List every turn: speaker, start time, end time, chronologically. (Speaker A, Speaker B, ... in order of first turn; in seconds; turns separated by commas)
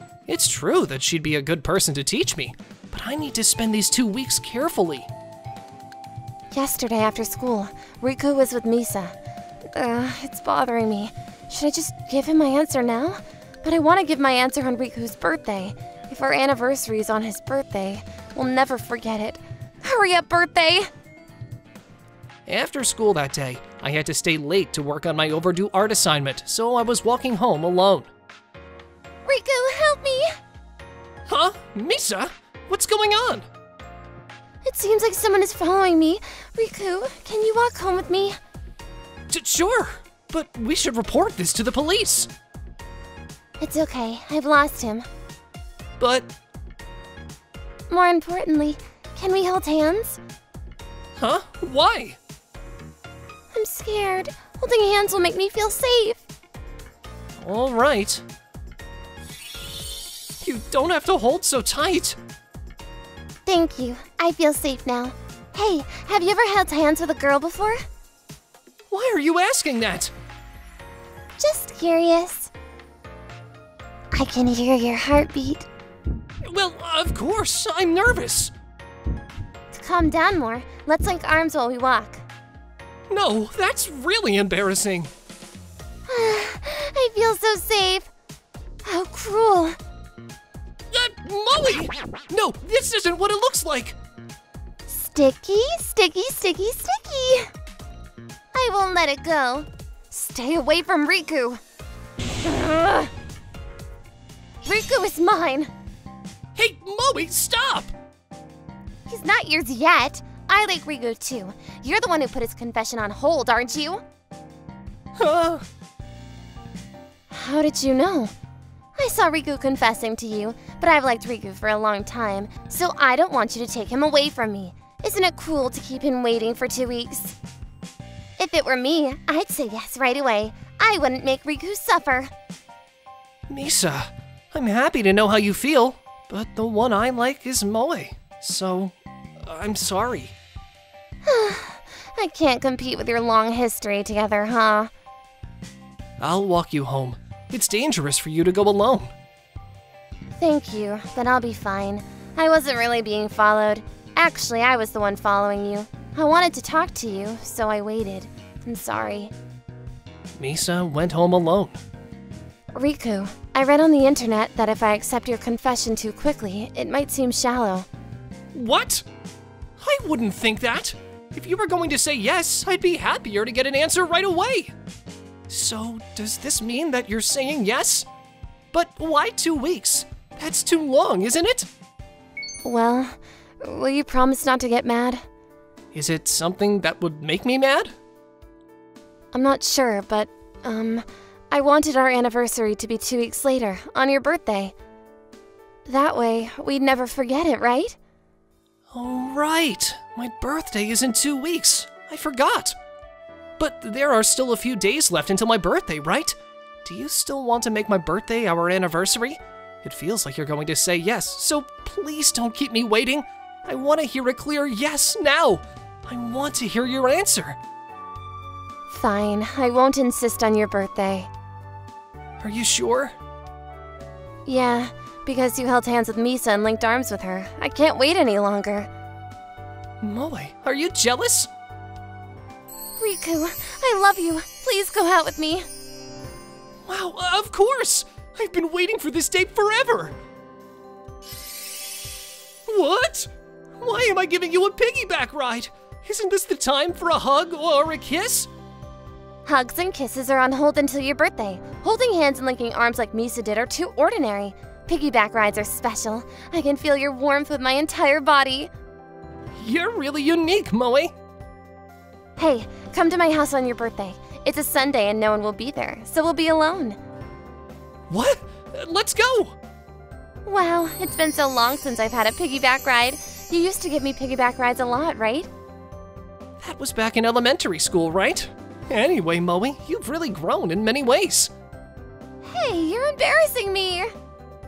Speaker A: 0.3-5.1, Speaker B: 6.5-9.2, Speaker B: 9.7-20.9, Speaker A: 22.5-28.1, Speaker B: 29.2-30.3, Speaker A: 31.3-33.5, Speaker B: 34.6-38.4, Speaker A: 39.3-42.3, Speaker B: 43.6-45.1, Speaker A: 46.0-46.3, Speaker B: 47.9-50.2, Speaker A: 51.2-52.2, Speaker B: 53.5-56.2, Speaker A: 57.4-58.2, Speaker A: 60.4-62.2, Speaker B: 63.5-67.8, Speaker A: 68.9-70.1, Speaker B: 71.4-72.5, Speaker B: 74.1-75.7, Speaker A: 76.4-78.5, Speaker B: 79.7-82.2, Speaker A: 83.1-85.1, Speaker B: 86.1-88.1, Speaker B: 88.8-89.8, Speaker A: 90.9-94.0, Speaker B: 94.9-97.5, Speaker B: 98.5-101.6, Speaker B: 102.4-103.1, Speaker B: 104.6-105.7, Speaker A: 106.5-107.9, Speaker B: 109.1-114.0, Speaker A: 115.2-115.7, Speaker B: 117.3-118.3, Speaker B: 119.0-127.4, Speaker B: 128.4-132.3, Speaker A: 133.5-140.3, Speaker B: 141.2-144.9, Speaker A: 146.2-149.1, Speaker B: 150.4-159.3, Speaker A: 160.4-161.8, Speaker B: 162.7-167.9, Speaker A: 168.5-169.1, Speaker A: 169.8-174.8, Speaker A: 175.5-178.1, Speaker A: 178.7-181.7, Speaker B: 182.6-185.2, Speaker A: 185.9-187.9, Speaker B: 189.3-194.7, Speaker B: 195.9-198.0, Speaker A: 198.9-202.8, Speaker A: 203.6-217.6, Speaker B: 218.9-221.3, Speaker A: 222.4-223.2, Speaker B: 224.5-228.9, Speaker A: 230.0-231.5, Speaker B: 233.0-235.7, Speaker A: 236.9-240.2, Speaker A: 242.7-248.5, Speaker B: 249.5-258.7, Speaker A: 259.6-261.1, Speaker B: 262.4-267.0, Speaker A: 268.1-269.6, Speaker B: 270.4-275.5, Speaker A: 276.6-281.5, Speaker B: 282.4-284.1